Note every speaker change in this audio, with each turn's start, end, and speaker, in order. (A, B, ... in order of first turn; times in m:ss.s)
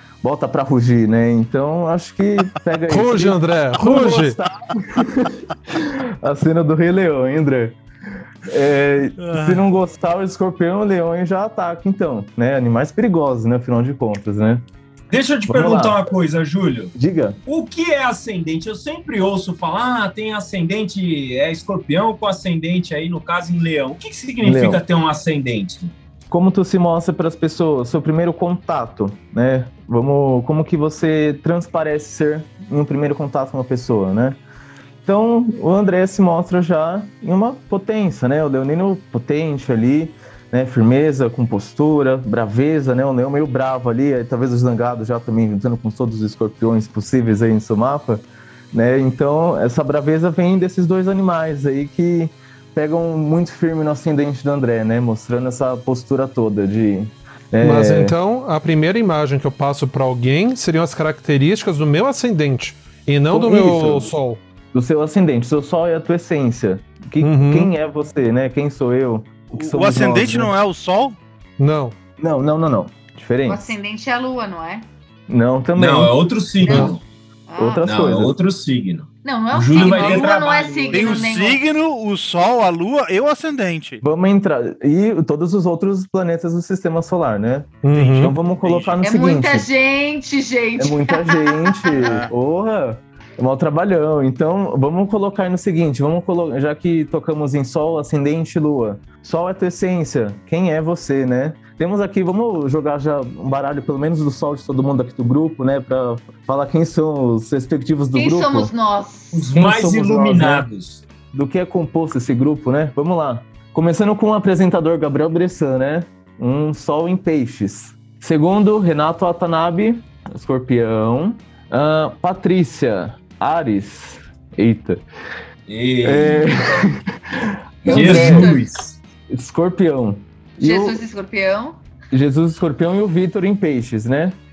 0:00.2-0:07.8 A
0:02.9-0:04.4 B
0:08.5-0:14.6 A
0:09.2-0:09.6 C
0:15.1-0:16.9 D
0:15.5-0:16.0 A
0:17.0-0:17.4 A
0:17.5-0:25.9 D
0:24.4-0:24.8 A
0:26.3-0:34.4 A
0:35.1-0:58.2 A
0:57.6-1:04.4 B
1:03.3-1:04.1 A
1:04.7-1:10.5 A
1:07.2-1:07.7 B
1:09.6-1:11.2 C
1:11.6-1:12.0 B
1:12.2-1:13.7 A
1:13.5-1:14.9 E
1:15.3-1:16.9 A
1:15.8-1:17.0 D
1:16.7-1:17.0 E
1:17.5-1:17.9 E
1:17.6-1:18.4 A
1:17.8-1:21.3 D
1:19.2-1:21.6 E
1:19.9-1:20.2 C
1:20.9-1:24.0 C
1:24.0-1:29.7 A
1:27.8-1:28.4 B
1:28.6-1:29.0 D
1:29.0-1:32.0 E
1:30.8-1:48.7 A
1:32.0-1:32.3 C
1:48.1-1:49.4 E
1:49.3-1:51.0 D
1:49.5-1:50.7 A
1:51.3-2:05.0 A
2:05.7-2:06.5 D
2:06.0-2:08.5 A
2:07.8-2:09.0 D
2:07.9-2:08.6 E
2:09.3-2:11.0 A
2:10.6-2:11.8 E
2:12.1-2:14.4 A